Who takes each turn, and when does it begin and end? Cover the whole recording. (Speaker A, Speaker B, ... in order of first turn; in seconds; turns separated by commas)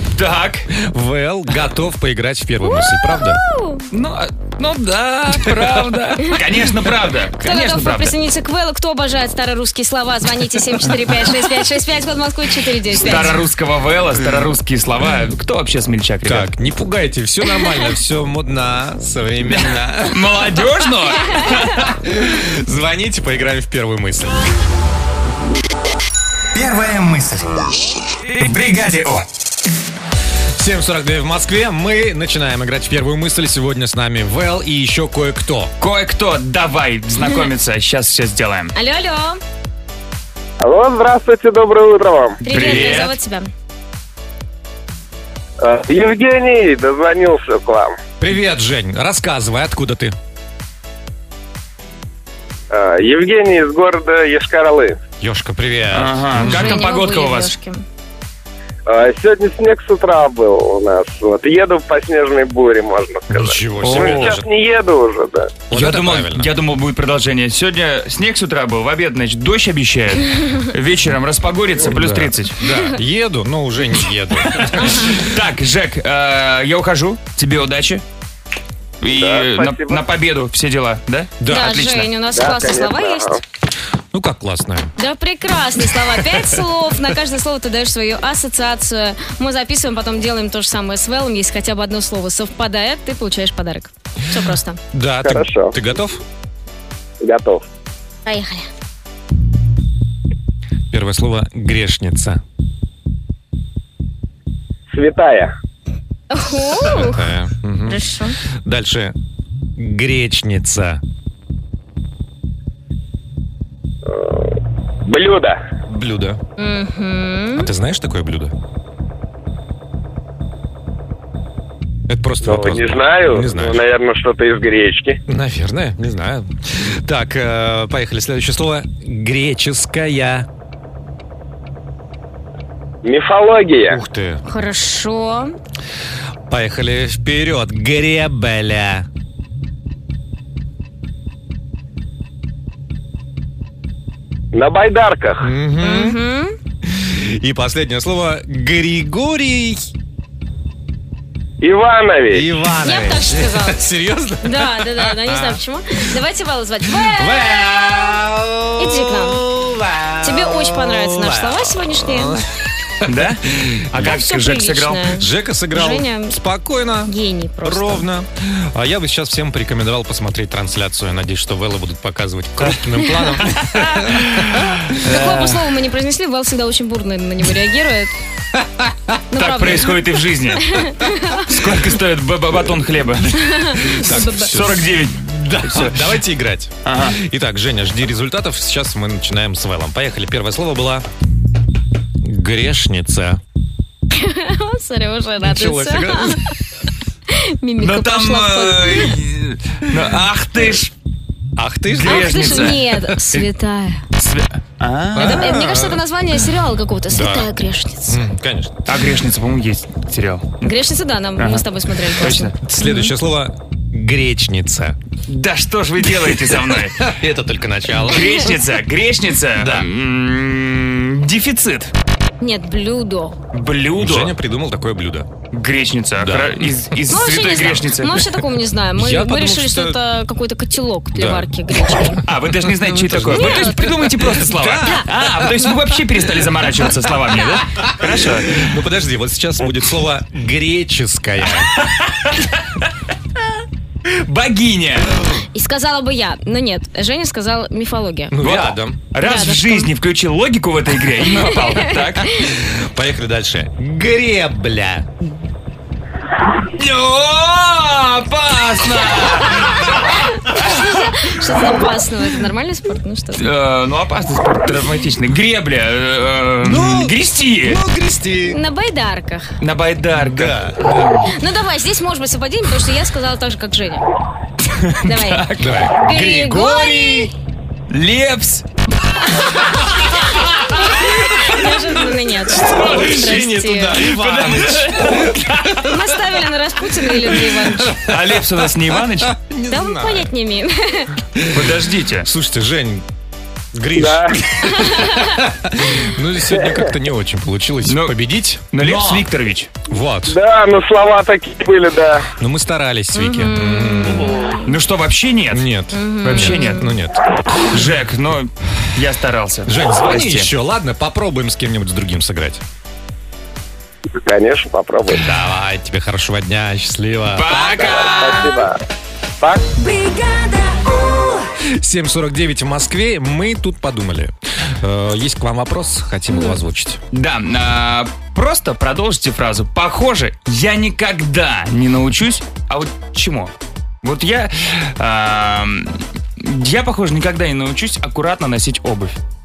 Speaker A: 0.2-0.7, Speaker B: 0.7-3.4, Speaker C: 2.7-3.9, Speaker A: 3.9-8.2, Speaker B: 5.3-5.8, Speaker C: 7.4-13.3, Speaker A: 12.9-16.5, Speaker B: 16.2-20.4, Speaker A: 19.6-21.8, Speaker B: 21.8-24.4, Speaker D: 26.5-27.8, Speaker D: 28.3-29.2, Speaker B: 30.6-35.7, Speaker A: 35.8-38.7, Speaker C: 37.2-37.5, Speaker C: 38.8-39.4, Speaker E: 40.6-42.4, Speaker C: 42.4-43.5, Speaker A: 42.5-43.1, Speaker B: 42.5-43.1, Speaker E: 45.6-48.0, Speaker B: 48.2-50.1, Speaker E: 52.7-55.0, Speaker B: 55.2-56.9, Speaker A: 55.9-57.5, Speaker C: 56.4-57.8, Speaker E: 58.9-65.5, Speaker B: 63.3-64.5, Speaker A: 63.8-64.3, Speaker B: 65.7-66.5, Speaker A: 65.7-72.6, Speaker B: 71.8-75.2, Speaker A: 74.5-78.0, Speaker A: 79.0-82.1, Speaker E: 79.1-80.0, Speaker B: 81.4-81.7, Speaker C: 81.5-83.3, Speaker E: 82.3-83.4, Speaker B: 84.1-84.9, Speaker C: 85.0-94.8, Speaker B: 94.9-96.2, Speaker E: 95.2-95.7, Speaker E: 97.2-97.6, Speaker C: 98.3-98.7, Speaker B: 100.9-102.4, Speaker E: 104.9-105.5, Speaker C: 106.3-107.3, Speaker B: 106.7-108.0, Speaker C: 107.9-108.4, Speaker B: 108.6-109.2, Speaker B: 109.8-111.0, Speaker E: 114.1-114.5, Speaker E: 115.0-115.6, Speaker B: 115.9-116.4, Speaker C: 116.6-117.7, Speaker B: 117.6-118.5, Speaker B: 122.1-123.8, Speaker E: 122.4-125.2, Speaker B: 125.3-130.5, Speaker E: 133.0-134.0, Speaker B: 133.9-134.4, Speaker C: 134.5-135.5, Speaker B: 136.5-139.1, Speaker E: 144.5-145.5, Speaker B: 145.4-146.2, Speaker C: 145.8-146.6, Speaker B: 146.9-149.9, Speaker E: 151.6-152.5, Speaker B: 152.3-155.6, Speaker C: 152.8-153.9, Speaker C: 154.4-157.6, Speaker B: 156.9-164.2, Speaker C: 158.8-159.4, Speaker C: 160.2-162.4, Speaker A: 163.0-165.2, Speaker C: 164.0-166.4, Speaker B: 165.2-167.1, Speaker C: 167.1-168.1, Speaker B: 167.6-174.5, Speaker A: 173.5-175.6, Speaker C: 175.0-178.1, Speaker B: 178.6-179.2, Speaker C: 179.3-180.0, Speaker A: 179.3-180.8, Speaker C: 180.6-181.5, Speaker A: 181.5-183.5, Speaker C: 183.4-184.6, Speaker B: 183.9-191.1, Speaker A: 184.1-186.2, Speaker A: 186.8-187.2, Speaker B: 192.2-193.4, Speaker C: 194.1-196.5, Speaker B: 195.4-196.4, Speaker C: 197.3-199.2, Speaker A: 197.8-200.9, Speaker B: 201.6-202.8, Speaker A: 201.9-203.1, Speaker C: 202.0-204.0, Speaker A: 204.2-205.5, Speaker B: 205.2-206.0, Speaker C: 205.2-208.2, Speaker B: 207.1-207.5, Speaker B: 208.1-208.8, Speaker A: 208.9-210.7, Speaker C: 210.6-213.1, Speaker A: 211.4-212.6, Speaker B: 212.6-215.0, Speaker A: 215.3-217.1, Speaker B: 216.2-218.5, Speaker A: 218.0-221.9, Speaker B: 219.6-219.9, Speaker C: 222.4-223.4, Speaker A: 223.5-224.3, Speaker B: 224.0-225.3, Speaker A: 225.5-228.3, Speaker B: 226.2-226.7, Speaker C: 227.1-232.2, Speaker B: 228.9-230.0, Speaker B: 231.1-232.2, Speaker A: 232.2-238.7, Speaker B: 232.9-235.6, Speaker C: 232.9-234.0, Speaker B: 238.0-241.7, Speaker A: 241.8-242.6, Speaker A: 244.2-245.2, Speaker C: 245.5-248.4, Speaker B: 248.3-249.0, Speaker A: 248.4-252.4, Speaker C: 249.2-249.9, Speaker C: 251.3-252.0, Speaker B: 252.5-255.1, Speaker A: 256.6-260.7, Speaker C: 260.1-263.4, Speaker A: 263.4-267.8, Speaker B: 266.6-268.6, Speaker C: 268.5-269.6, Speaker A: 269.6-270.6, Speaker B: 270.1-271.3, Speaker C: 271.3-274.1, Speaker A: 274.9-275.7, Speaker C: 275.0-277.3, Speaker B: 275.6-277.3, Speaker A: 277.9-278.6, Speaker C: 280.7-284.1, Speaker B: 282.5-285.7, Speaker A: 282.7-283.2, Speaker A: 284.0-285.8, Speaker C: 285.8-288.0, Speaker B: 287.3-288.1, Speaker A: 288.1-289.3, Speaker B: 289.2-290.3, Speaker C: 289.7-291.1, Speaker B: 291.4-293.1, Speaker A: 291.5-292.3, Speaker B: 293.7-299.3, Speaker E: 294.0-294.5, Speaker C: 294.7-295.4, Speaker E: 296.5-296.8, Speaker A: 297.9-298.2, Speaker A: 298.7-299.7, Speaker B: 299.9-300.4, Speaker E: 300.3-302.3, Speaker B: 302.4-304.5, Speaker C: 303.1-304.7, Speaker A: 304.6-305.7, Speaker B: 305.5-307.2, Speaker C: 305.9-306.9, Speaker A: 306.2-306.9, Speaker A: 307.7-310.5, Speaker B: 309.7-312.6, Speaker E: 314.2-315.3, Speaker B: 315.1-318.7, Speaker A: 317.4-318.6, Speaker E: 317.9-318.8, Speaker E: 319.4-319.7, Speaker B: 321.7-327.0, Speaker C: 326.3-326.6, Speaker A: 327.1-333.5, Speaker A: 334.0-339.2